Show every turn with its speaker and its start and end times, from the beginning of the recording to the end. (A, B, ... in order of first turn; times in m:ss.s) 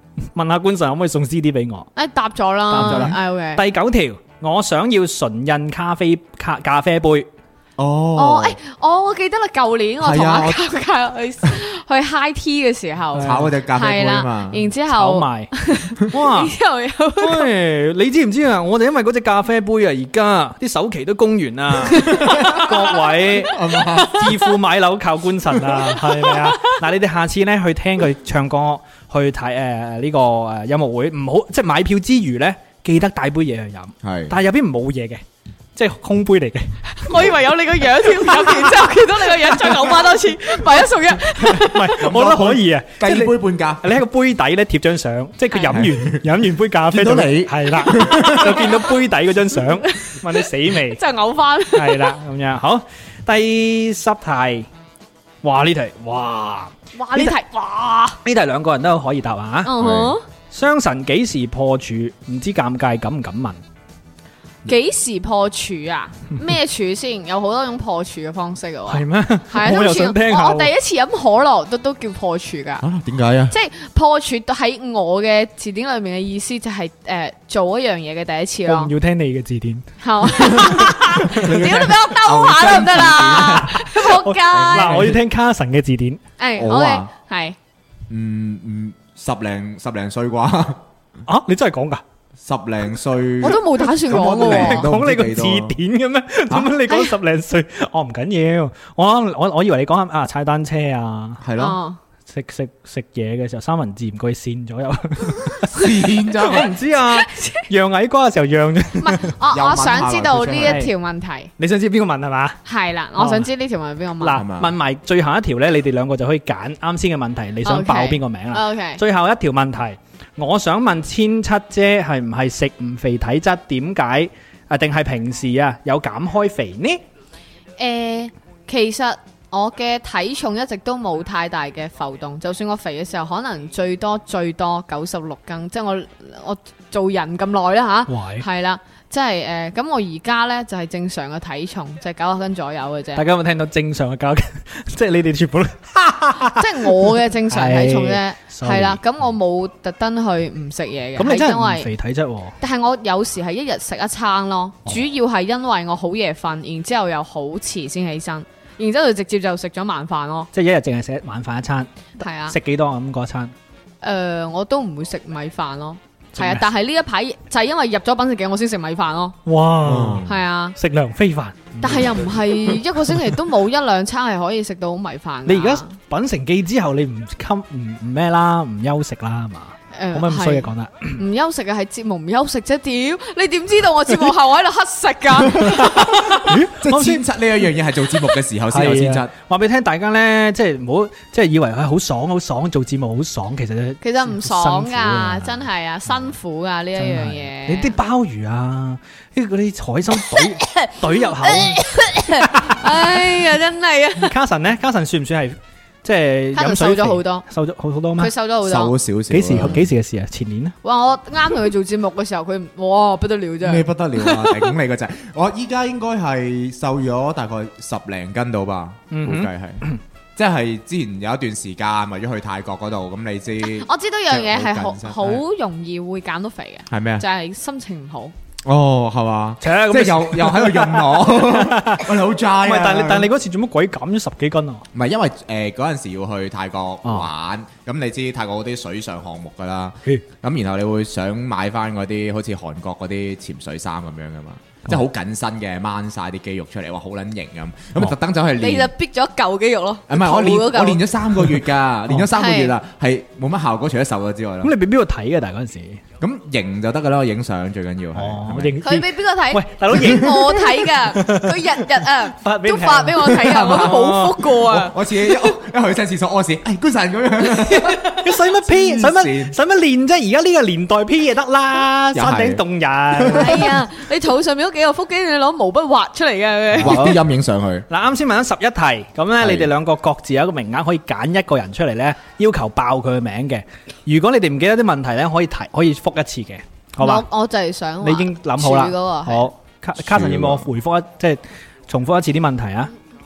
0:00.3-0:01.9 A
0:02.0-0:03.6 B
0:02.7-0:07.3 A
0:02.7-0:03.2 C
0:07.8-0:08.6 C
0:08.2-0:17.5 B
0:10.0-0:10.6 C
0:13.1-0:13.5 A
0:13.2-0:14.6 C
0:14.9-0:15.5 A
0:16.1-0:16.5 A
0:17.2-0:35.2 A
0:21.9-0:22.7 B
0:22.1-0:22.8 C
0:23.4-0:24.3 C
0:23.9-0:24.3 B
0:26.2-0:26.7 B
0:34.0-0:34.3 C
0:35.8-0:37.0 A
0:37.0-0:42.0 B
0:41.5-0:44.0 C
0:41.5-0:51.0 A
0:45.7-0:46.2 C
0:46.8-0:48.7 C
0:49.9-0:52.2 B
0:51.7-0:54.7 A
0:55.4-0:57.3 A
0:56.9-0:58.2 B
0:58.2-0:59.7 A
0:59.6-1:00.2 B
0:59.8-1:00.2 C
1:00.5-1:03.6 A
1:04.6-1:12.8 B
1:08.9-1:10.7 A
1:12.8-1:13.5 C
1:13.5-1:18.9 B
1:18.7-1:19.9 A
1:20.0-1:25.1 B
1:20.4-1:23.9 C
1:20.4-1:20.9 A
1:23.3-1:26.2 A
1:24.5-1:25.2 C
1:26.4-1:27.6 B
1:26.6-1:27.1 C
1:28.1-1:30.8 C
1:31.3-1:32.0 A
1:32.4-1:35.8 C
1:33.4-1:34.8 B
1:34.1-1:41.4 A
1:41.4-1:41.8 C
1:41.6-1:42.0 B
1:42.3-1:45.8 A
1:45.7-1:46.7 C
1:46.4-1:49.3 A
1:46.5-1:47.6 B
1:49.0-1:51.5 B
1:49.5-1:50.8 C
1:50.6-1:50.9 A
1:51.6-1:52.6 A
1:52.6-1:54.4 B
1:53.2-1:53.5 A
1:54.2-2:07.0 A
1:54.3-1:54.7 C
1:57.6-1:59.0 B
2:07.8-2:23.2 B
2:18.1-2:18.4 A
2:23.2-2:29.0 A
2:26.5-2:31.9 B
2:31.2-2:32.5 A
2:32.6-2:40.5 B
2:40.5-2:43.5 A
2:42.2-2:42.6 B
2:44.0-2:49.4 B
2:46.4-2:46.6 A
2:49.4-2:52.8 A
2:49.8-2:50.4 C
2:50.2-2:50.8 B
2:51.8-2:55.9 B
2:55.4-3:01.2 A
2:59.9-3:06.5 B
3:05.5-3:07.2 A
3:06.7-3:09.3 C
3:08.7-3:15.6 A
3:14.0-3:18.0 B
3:17.0-3:21.8 A
3:20.3-3:24.3 B
3:22.4-3:22.8 A
3:24.2-3:28.3 A
3:26.5-3:27.4 B
3:28.2-3:28.9 B
3:28.6-3:29.8 C
3:29.3-3:30.7 A
3:30.8-3:34.7 B
3:33.6-3:39.8 C
3:39.1-3:40.0 A
3:40.4-3:45.4 C
3:43.6-3:48.3 B
3:46.9-3:47.2 C
3:48.6-3:53.3 C
3:49.6-3:52.1 A
3:52.6-3:54.8 A
3:54.9-4:08.9 C
4:08.6-4:11.0 B
4:10.1-4:14.7 C
4:12.3-4:12.7 B
4:14.6-4:16.0 A
4:16.2-4:18.8 C
4:18.2-4:24.5 A
4:18.8-4:25.5 B
4:23.3-4:29.5 C
4:28.1-4:33.6 A
4:32.1-4:33.8 C
4:33.3-4:37.1 B
4:36.7-4:37.8 C
4:36.8-4:37.2 A
4:37.9-4:47.2 A
4:39.4-4:39.7 C
4:47.0-4:49.5 B
4:48.0-4:52.9 A
4:50.0-4:50.7 C